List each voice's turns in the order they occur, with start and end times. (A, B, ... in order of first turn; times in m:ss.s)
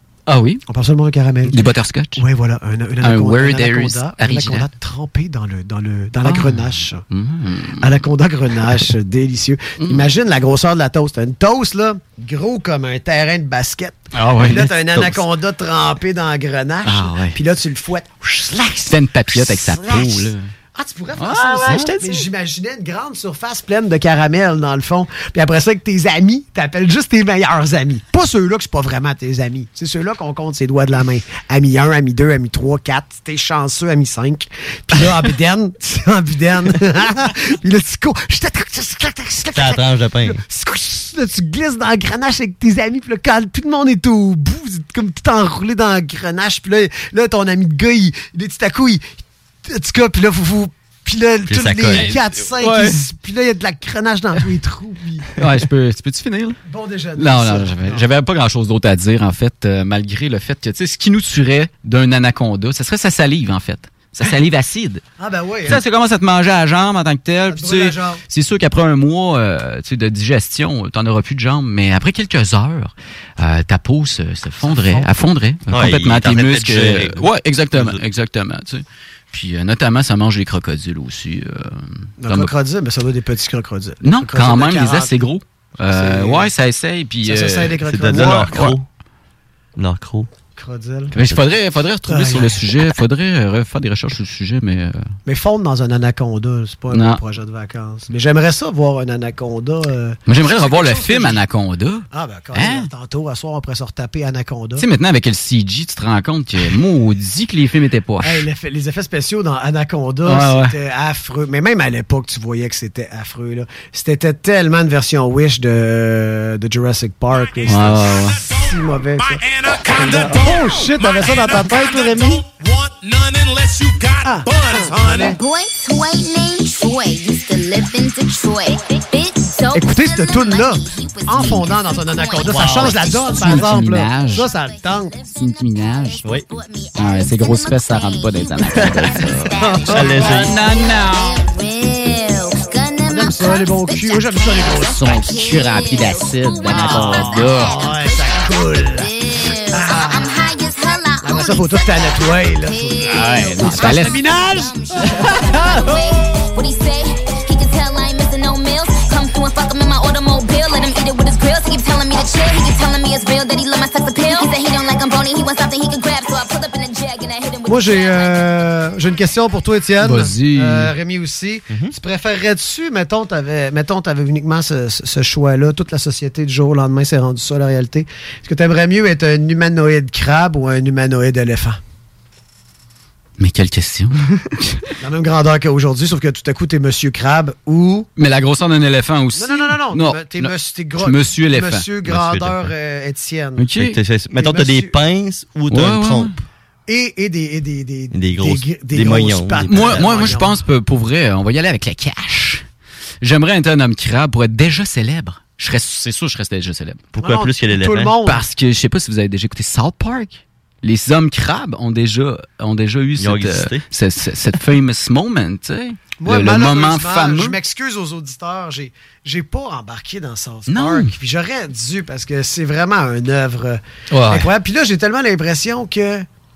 0:00.3-0:00.6 A
0:00.7-0:07.0 B
0:01.5-0:02.2 A
0:03.0-0:04.7 A
0:06.2-0:07.9 A
0:07.8-0:49.0 B
0:09.8-0:10.0 A
0:14.1-0:14.7 A
0:14.9-0:15.2 C
0:16.8-0:17.4 A
0:18.9-0:20.5 A
0:21.2-0:22.2 A
0:39.5-0:40.4 C
0:49.6-0:55.3 B
0:51.5-0:52.2 C
0:51.9-0:53.0 A
0:55.4-0:56.6 A
0:56.7-0:58.0 B
0:57.2-1:05.0 A
1:05.2-1:05.8 B
1:05.7-1:22.5 A
1:07.5-1:08.2 B
1:14.6-1:15.1 B
1:15.7-1:18.0 C
1:22.2-1:25.2 B
1:24.0-1:28.8 A
1:25.8-1:26.5 B
1:27.2-1:28.7 B
1:27.8-1:28.8 C
1:29.8-1:30.3 C
1:30.5-1:31.1 B
1:31.1-1:35.0 A
1:32.1-1:32.6 B
1:35.2-1:41.4 B
1:36.9-1:37.2 A
1:40.2-1:42.9 A
1:42.1-1:44.8 B
1:44.8-1:48.4 A
1:48.2-2:02.4 B
1:50.2-1:50.7 A
1:57.6-1:58.4 A
2:04.2-2:05.4 B
2:05.2-2:48.6 D
2:09.7-2:15.2 B
2:12.4-2:13.1 C
2:13.4-2:14.5 A
2:15.3-2:16.3 A
2:17.0-2:21.4 A
2:19.6-2:20.4 B
2:19.9-2:20.6 C
2:23.1-2:25.1 B
2:24.8-2:27.8 A
2:26.7-2:29.1 B
2:26.9-2:27.2 C
2:29.7-2:30.4 B
2:31.2-2:34.8 B
2:33.0-2:34.2 A
2:47.6-3:01.8 B
2:50.0-2:50.9 A
3:03.4-3:04.8 A
3:05.0-3:08.1 B
3:08.2-3:11.9 A
3:09.3-3:13.7 B
3:12.0-3:12.7 C
3:13.6-3:14.0 A
3:13.8-3:16.3 C
3:14.3-3:15.0 B
3:15.7-3:16.4 A
3:16.9-3:20.6 B
3:18.1-3:20.4 C
3:19.7-3:22.6 A
3:23.2-3:27.1 A
3:27.1-3:28.2 C
3:27.2-3:28.4 B
3:28.2-3:37.6 A
3:33.2-3:33.8 C
3:36.2-3:46.2 B
3:40.7-3:41.1 A
3:44.1-3:44.5 A